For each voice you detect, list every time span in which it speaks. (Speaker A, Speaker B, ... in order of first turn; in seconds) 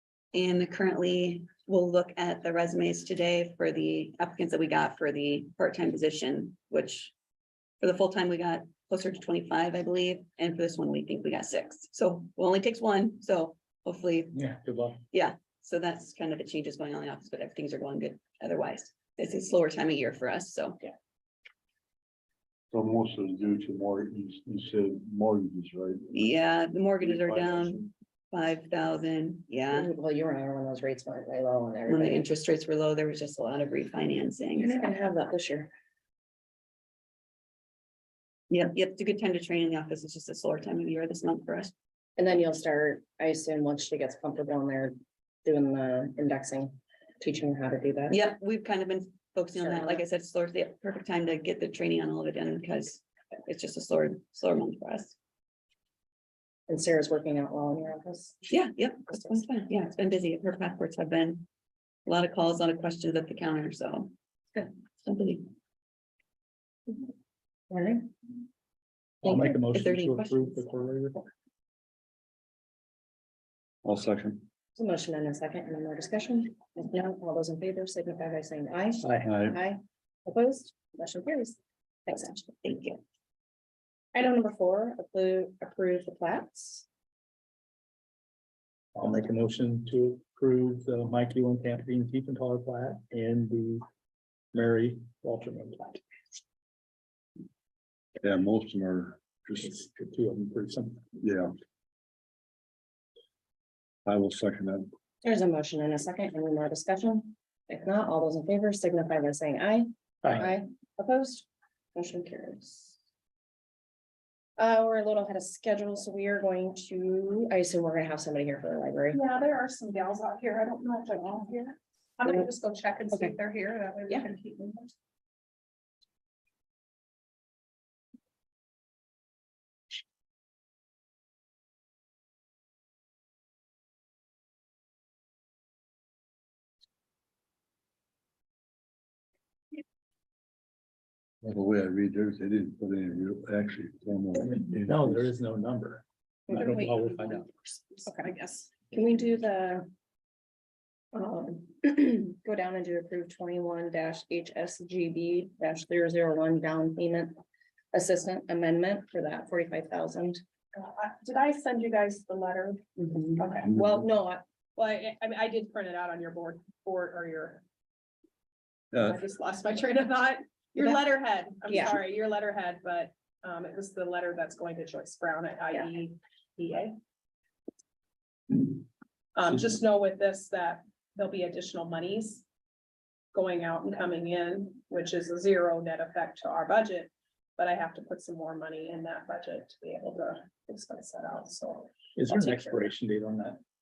Speaker A: 0.3-7.1, 7.8-14.3, 15.1-20.9, 26.1-29.9, 31.9-34.9, 38.5-41.7, 48.1-55.2, 58.5-61.5, 62.1-64.1, 65.0-65.5, 69.7-70.6, 82.6-83.0
Speaker B: 14.3-15.0, 69.2-71.3, 79.0-79.3, 89.0-93.8, 94.5-96.0, 99.6-101.0, 110.2-110.5, 144.4-147.5, 192.2-193.6
Speaker C: 22.7-26.2, 27.0-27.9, 73.8-74.5, 98.2-99.4, 104.1-104.9, 141.4-145.3
Speaker D: 29.7-32.2, 34.6-35.7, 42.2-48.2, 49.6-50.0, 56.7-58.5, 59.1-59.4, 67.7-68.1, 74.8-82.6, 84.1-86.9, 105.2-113.0, 114.6-119.2, 146.5-148.1, 148.9-149.9, 151.1-157.4, 157.9-160.4, 163.0-164.4, 171.7-172.0
Speaker E: 119.1-124.9, 148.1-148.7, 160.8-162.8, 163.4-163.7, 164.8-167.6, 169.0-176.9, 178.5-178.8, 179.3-182.4, 183.3-192.8